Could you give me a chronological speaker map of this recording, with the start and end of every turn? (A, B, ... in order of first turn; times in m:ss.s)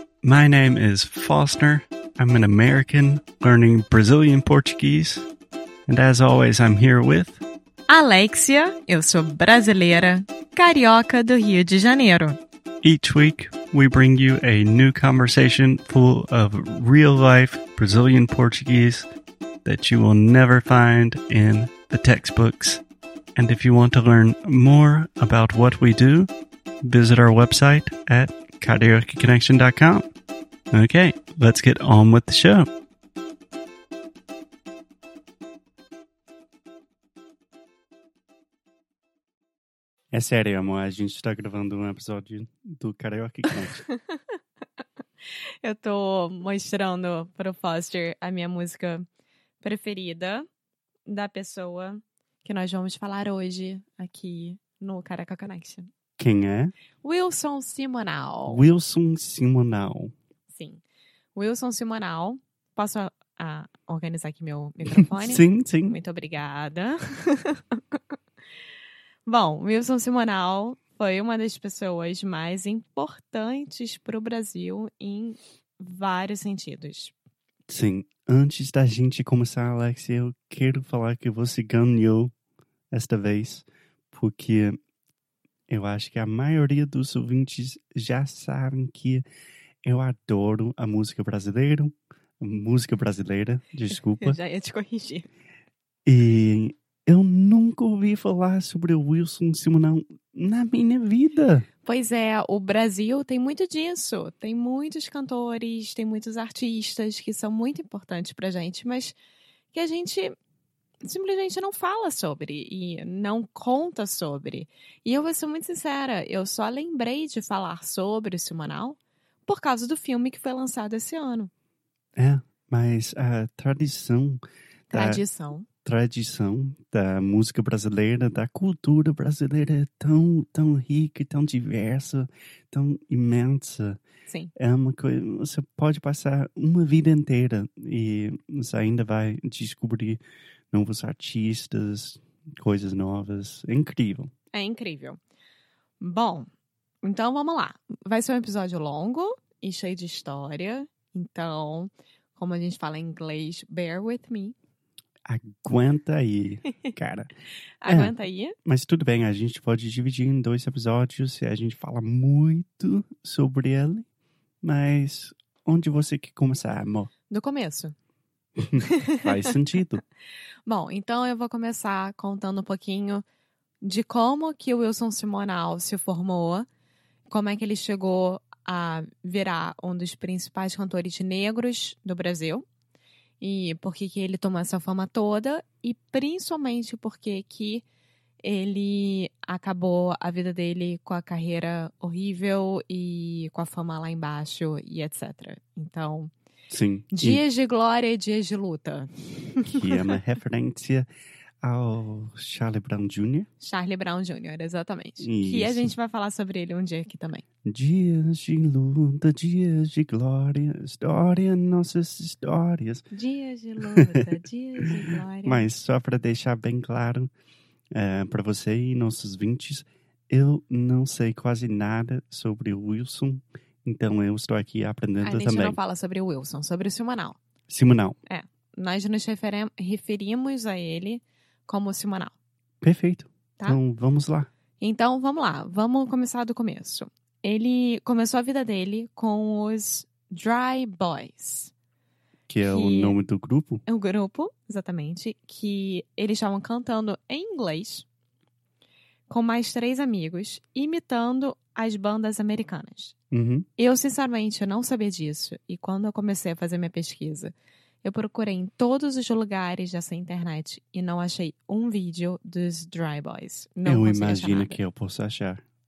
0:00.2-0:05.3 A
0:05.9-0:07.4 A
0:07.9-0:12.4 B
0:12.8-0:19.1 A
0:19.6-0:22.8 A
0:23.4-0:26.3 A
0:26.8-0:30.1 A
0:30.7-0:32.7 A
0:40.1-0:43.8 A
0:43.9-0:44.2 B
0:45.6-0:49.0 B
0:49.6-0:50.5 B
0:51.0-0:55.9 B
0:56.2-0:56.7 A
0:57.0-0:58.6 B
0:58.5-1:00.1 A
1:00.5-1:00.8 B
1:01.3-1:08.0 B
1:05.2-1:06.0 A
1:09.2-1:17.1 B
1:17.7-1:22.3 A
1:22.9-1:24.8 A
1:25.7-1:29.2 A
1:29.8-1:34.4 A
1:33.9-1:35.3 B
1:36.0-1:41.6 A
1:41.8-1:49.2 B
1:49.7-1:50.3 B
1:51.0-2:01.5 B
2:02.2-2:05.2 A
2:04.9-2:05.7 B
2:05.8-2:14.0 A
2:14.6-2:20.2 A
2:20.7-2:24.3 A
2:24.5-2:25.2 B
2:26.0-2:26.5 B
2:27.0-2:34.6 B
2:35.2-2:37.3 A
2:37.8-2:38.6 B
2:37.9-2:38.1 A
2:38.6-2:44.0 A
2:44.6-2:47.1 A
2:47.3-2:47.9 B
2:48.6-2:50.0 A
2:48.8-2:49.2 B
2:50.6-2:53.2 B
2:53.8-2:56.6 B
2:57.3-3:02.6 B
3:03.4-3:07.8 B
3:08.4-3:16.3 B
3:16.7-3:17.4 A
3:17.1-3:20.1 B
3:19.6-3:21.1 A
3:21.6-3:23.5 A
3:23.6-3:27.4 B
3:25.2-3:25.9 A
3:27.6-3:33.0 A
3:33.1-3:35.7 B
3:33.8-3:34.2 A
3:35.4-3:37.3 A
3:37.9-3:45.8 A
3:45.2-3:47.4 B
3:47.7-3:48.2 A
3:48.3-3:52.3 B
3:52.8-3:54.5 A
3:54.8-4:01.7 B
4:02.5-4:03.8 A
4:02.6-4:03.2 B
4:03.8-4:08.0 B
4:09.3-4:13.1 B
4:13.3-4:13.6 A
4:13.8-4:17.5 B
4:18.0-4:24.8 B
4:23.8-4:25.6 A